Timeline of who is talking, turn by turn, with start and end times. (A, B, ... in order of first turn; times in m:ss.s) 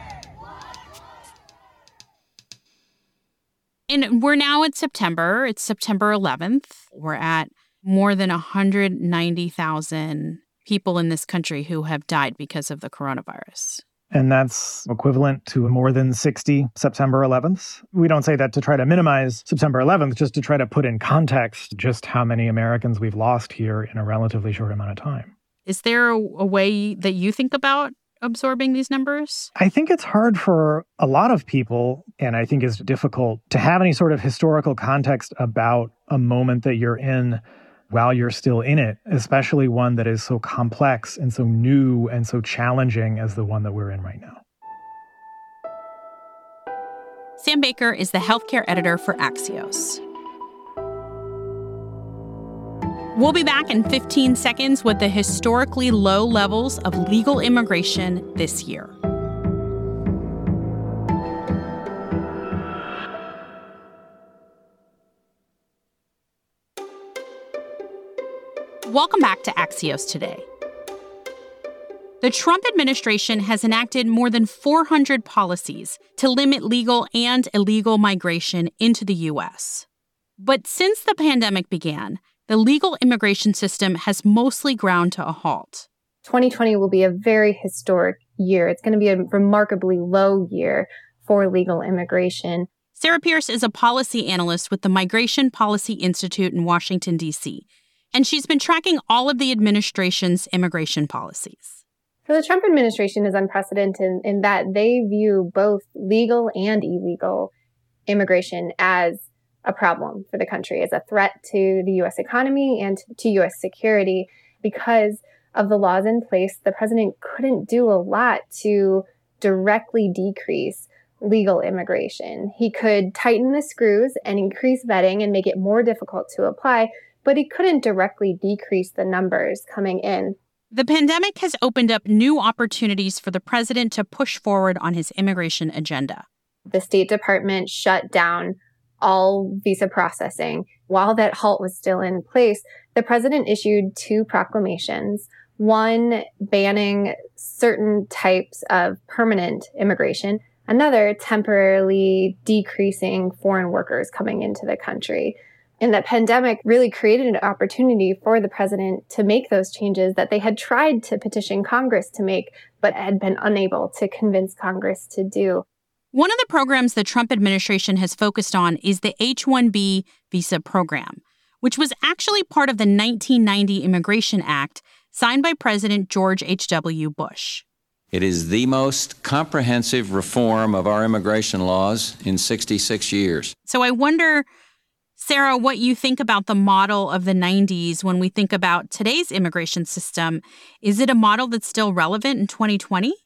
0:03.9-0:13.8 A
0:14.1-0:25.3 B
0:25.6-0:29.5 A
0:29.6-0:44.4 B
0:47.4-0:50.0 A
0:53.1-0:58.9 A
1:08.8-1:10.4 A
1:12.2-1:19.8 A
1:20.4-1:25.9 A
1:26.2-1:32.7 C
1:32.9-1:41.8 A
1:42.3-1:47.5 C
1:48.1-2:10.4 C
2:10.7-2:16.2 A
2:16.7-2:45.6 C
2:46.1-2:57.6 A
2:58.1-3:03.5 D
3:03.6-3:04.4 A
3:05.2-3:13.2 A